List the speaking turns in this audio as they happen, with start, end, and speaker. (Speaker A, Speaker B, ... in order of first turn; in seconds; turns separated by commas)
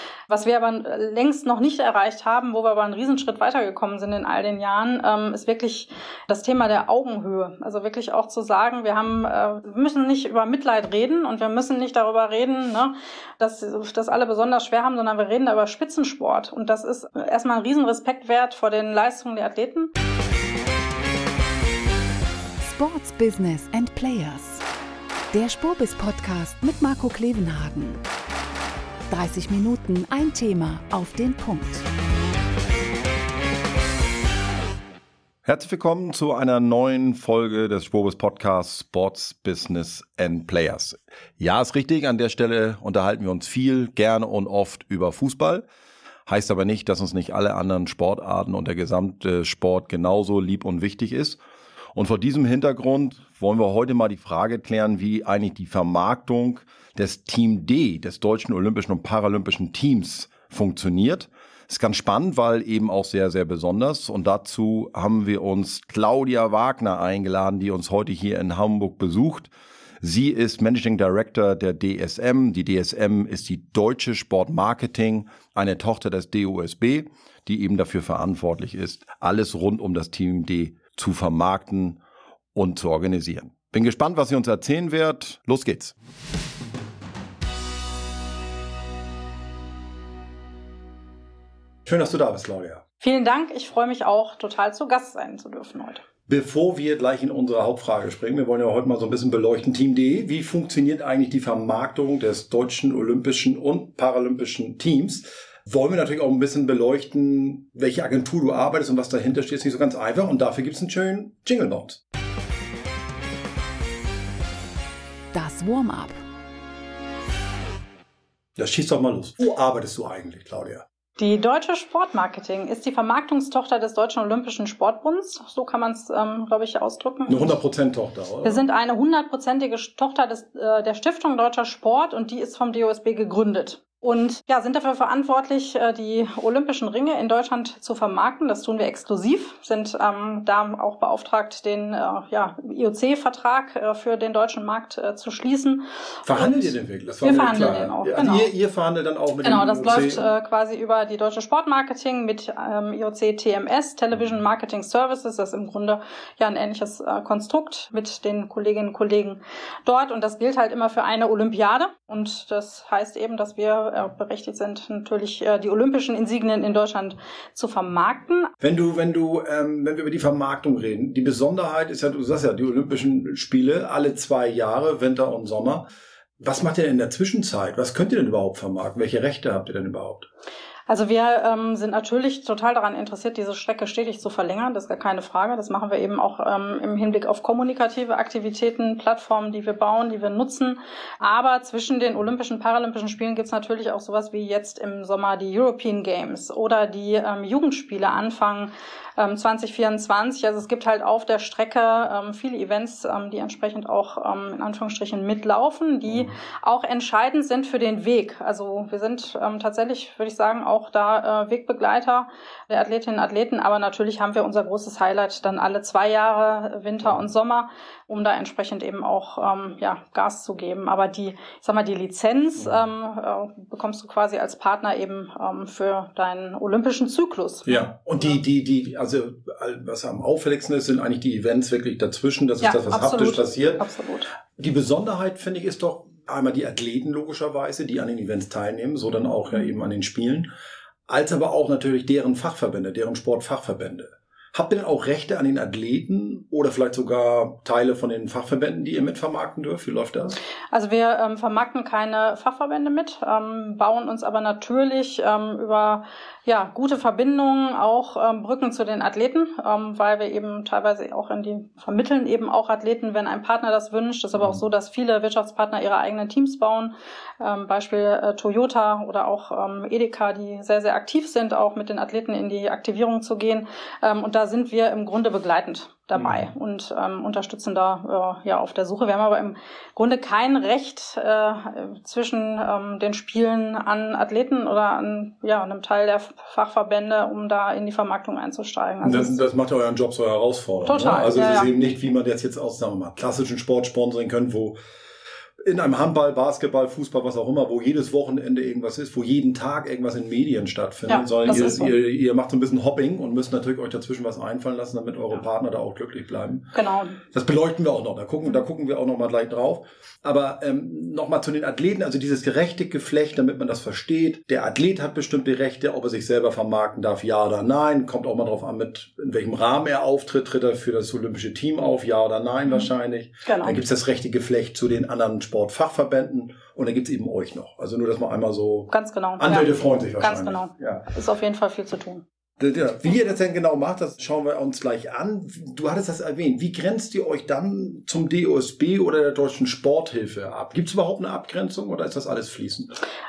Speaker A: 0.3-19.9, Speaker B: 22.6-24.6, Speaker B: 25.3-28.0, Speaker B: 29.1-31.9, Speaker C: 35.5-45.7, Speaker C: 46.3-51.4, Speaker C: 52.0-82.0, Speaker C: 82.5-86.0, Speaker C: 91.9-92.8, Speaker A: 93.0-96.0, Speaker C: 96.3-112.0, Speaker B: 115.3-116.2, Speaker C: 118.6-120.8, Speaker A: 121.2-127.6, Speaker C: 127.3-128.6, Speaker A: 128.4-146.7, Speaker C: 146.2-150.3, Speaker A: 147.2-148.5, Speaker A: 149.4-168.5, Speaker C: 168.6-175.8, Speaker C: 176.4-180.3, Speaker A: 180.9-227.9, Speaker C: 206.1-206.3, Speaker C: 227.7-233.8, Speaker A: 232.6-234.3, Speaker C: 234.6-240.5, Speaker C: 241.1-250.4, Speaker A: 250.7-289.4, Speaker C: 276.1-276.5, Speaker C: 289.0-294.8, Speaker A: 290.9-291.7, Speaker C: 295.6-306.7, Speaker A: 301.1-301.9, Speaker A: 306.7-307.2, Speaker C: 307.3-331.0, Speaker A: 323.4-323.8, Speaker A: 328.9-332.2, Speaker C: 332.6-343.0